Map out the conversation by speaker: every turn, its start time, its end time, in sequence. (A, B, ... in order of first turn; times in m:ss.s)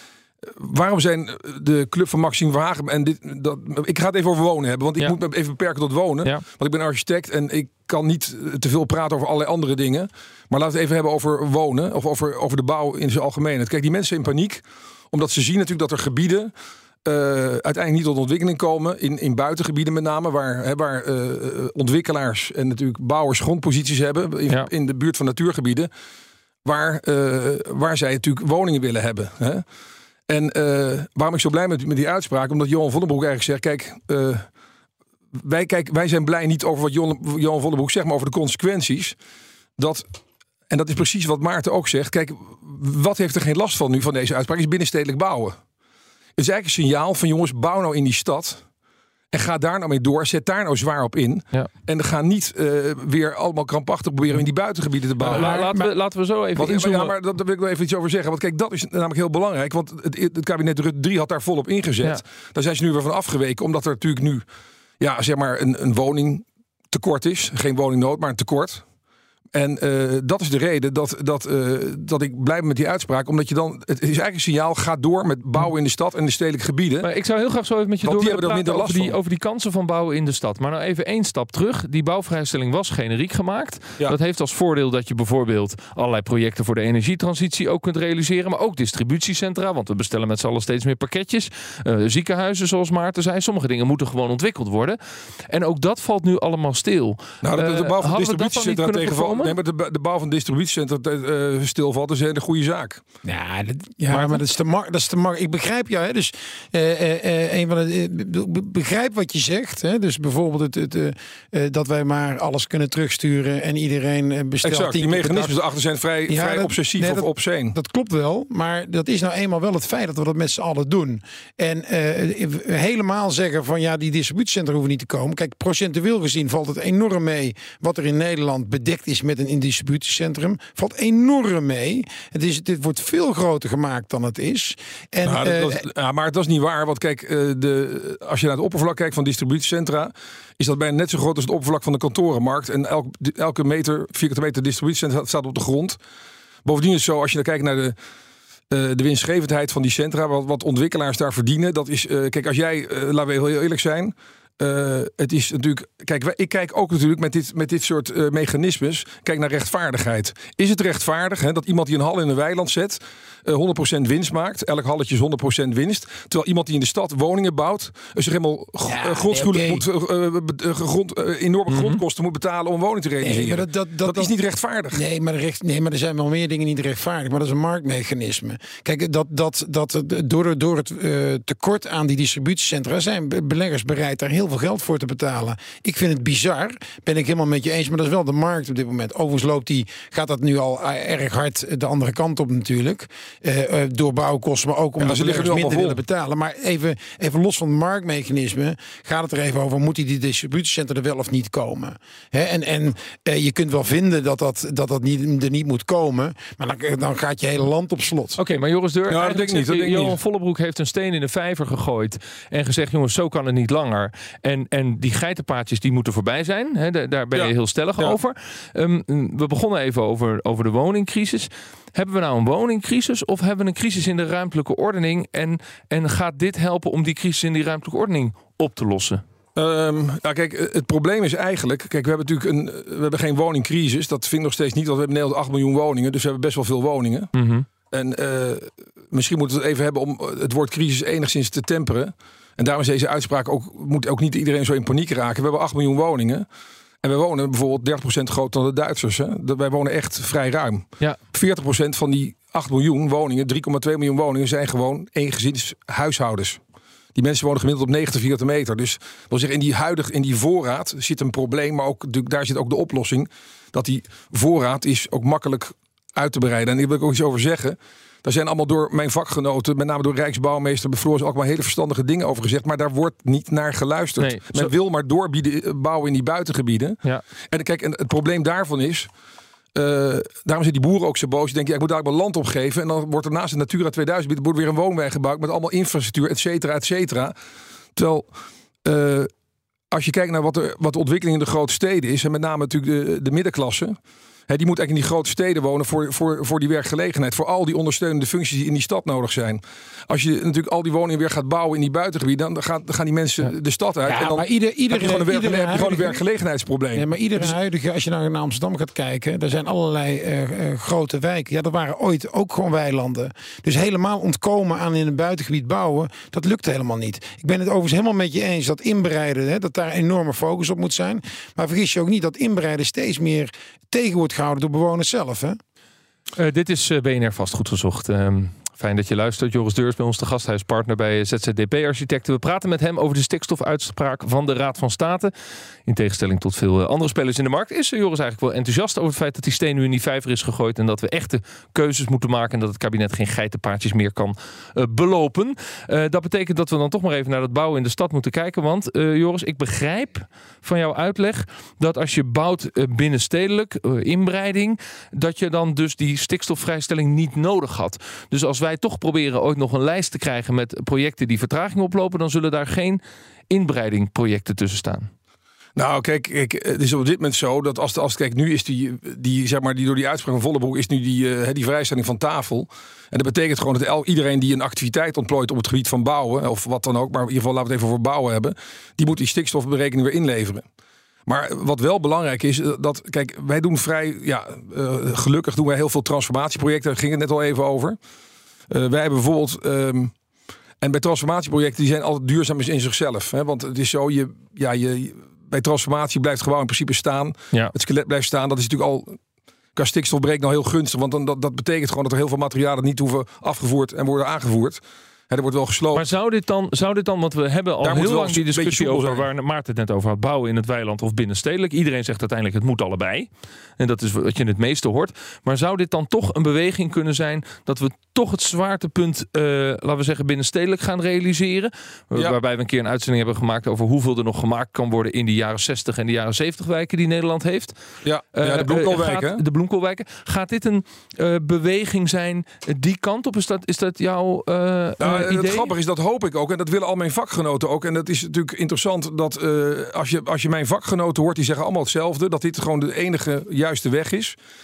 0:00.5-0:16.5 A
0:17.0-0:25.9 A
0:26.6-0:29.6 A
0:30.3-0:34.5 A
0:35.4-0:39.2 A
0:39.8-0:40.1 A
0:40.7-0:45.6 A
0:46.4-0:48.6 A
0:49.3-0:55.7 A
0:55.2-0:57.1 B
0:55.2-0:55.9 C
0:56.6-1:04.4 A
1:05.0-1:08.8 A
1:09.5-1:17.1 A
1:17.0-1:35.0 B
1:18.0-1:19.2 A
1:35.5-1:39.6 B
1:37.4-1:43.0 A
1:43.2-1:55.6 C
1:54.6-1:57.8 A
1:56.3-2:15.8 C
2:15.2-2:26.0 A
2:26.6-2:28.0 A
2:28.7-2:55.0 A
2:48.8-2:49.8 C
2:51.7-2:52.0 B
2:53.2-2:54.3 C
2:54.9-3:28.4 C
3:15.0-3:16.0 A
3:28.4-3:49.2 B
3:29.1-3:30.2 A
3:37.3-3:38.2 A
3:49.6-3:57.3 A
3:57.3-3:57.7 B
3:57.9-4:06.5 A
4:07.0-4:16.6 A
4:17.2-4:37.0 A
4:34.2-4:34.7 B
4:37.5-4:39.1 A
4:39.8-4:47.4 A
4:48.0-4:48.3 A
4:48.8-4:49.3 A
4:49.9-4:54.0 A
4:54.5-5:07.5 A
5:04.1-5:06.2 C
5:07.0-5:25.6 C
5:26.4-5:35.3 B
5:35.9-6:05.1 B
6:05.8-6:20.6 A
6:21.3-6:28.0 A
6:28.7-6:30.1 A
6:30.8-6:39.2 A
6:39.8-6:46.1 A
6:45.9-7:07.8 B
6:47.8-6:49.2 A
7:08.0-7:09.4 A
7:08.4-7:15.7 B
7:15.0-7:24.4 A